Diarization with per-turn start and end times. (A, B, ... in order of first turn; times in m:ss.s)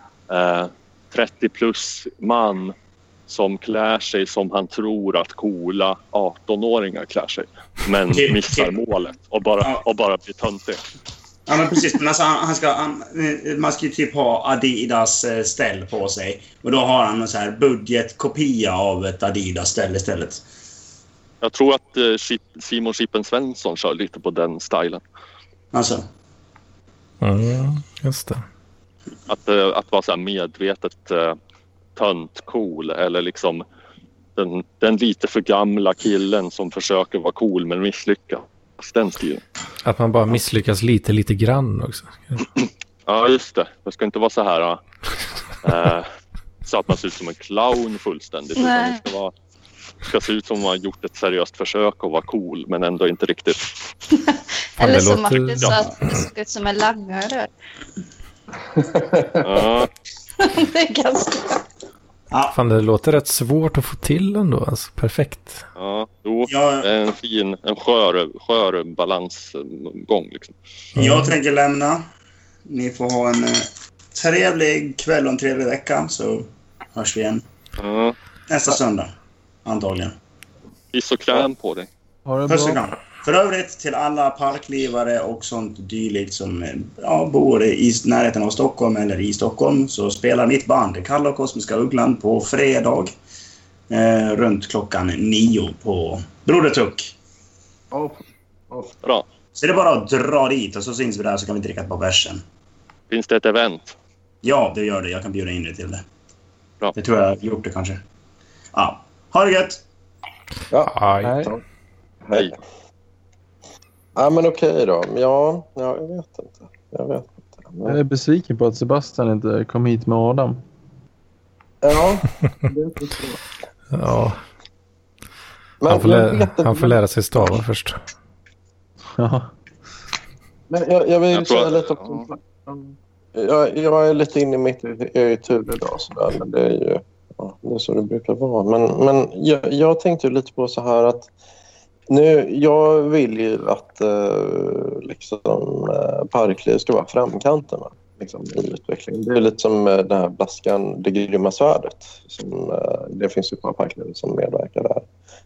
0:00.3-0:02.7 A
0:03.3-0:10.8 A
0:08.1-0:08.8 B
0:11.5-0:20.4 B
0:21.4-0:25.0 A
0:25.7-0:26.0 B
0:27.2-0:28.4 C
0:29.3-0:31.4 A
0:32.0-0:33.6 A
0:34.4-0:39.4 A
0:39.8-0:42.4 C
0:43.1-0:44.8 A
0:45.6-0:46.1 A
0:46.6-0:49.3 A
0:48.6-0:49.0 D
0:50.0-0:53.7 A
0:54.3-0:57.5 D
0:54.8-0:55.7 C
0:58.8-0:59.6 E
0:59.4-0:59.9 A
1:00.4-1:01.6 D
1:02.5-1:05.6 C
1:05.8-1:10.6 A
1:06.5-1:06.8 B
1:11.0-1:11.3 C
1:11.0-1:12.0 B
1:12.7-1:17.4 B
1:17.8-1:18.2 A
1:18.5-1:19.1 B
1:19.6-1:20.1 B
1:20.9-1:21.9 A
1:22.3-1:22.8 F
1:22.5-1:33.1 B
1:33.9-1:37.1 B
1:37.9-1:38.9 E
1:39.5-1:42.4 B
1:43.1-1:44.0 A
1:44.4-1:46.0 B
1:47.0-1:48.0 B
1:48.7-1:49.8 B
1:50.7-1:51.6 E
1:50.9-1:51.5 C
1:51.2-1:51.5 F
1:52.2-1:52.6 E
1:54.2-1:58.0 E
1:57.8-2:00.6 F
2:01.8-2:03.4 E
2:03.9-2:04.4 C
2:05.8-2:07.6 E
2:05.9-2:08.0 C
2:09.2-2:09.5 F
2:10.7-2:21.3 E
2:11.3-2:12.2 A
2:22.1-2:35.0 E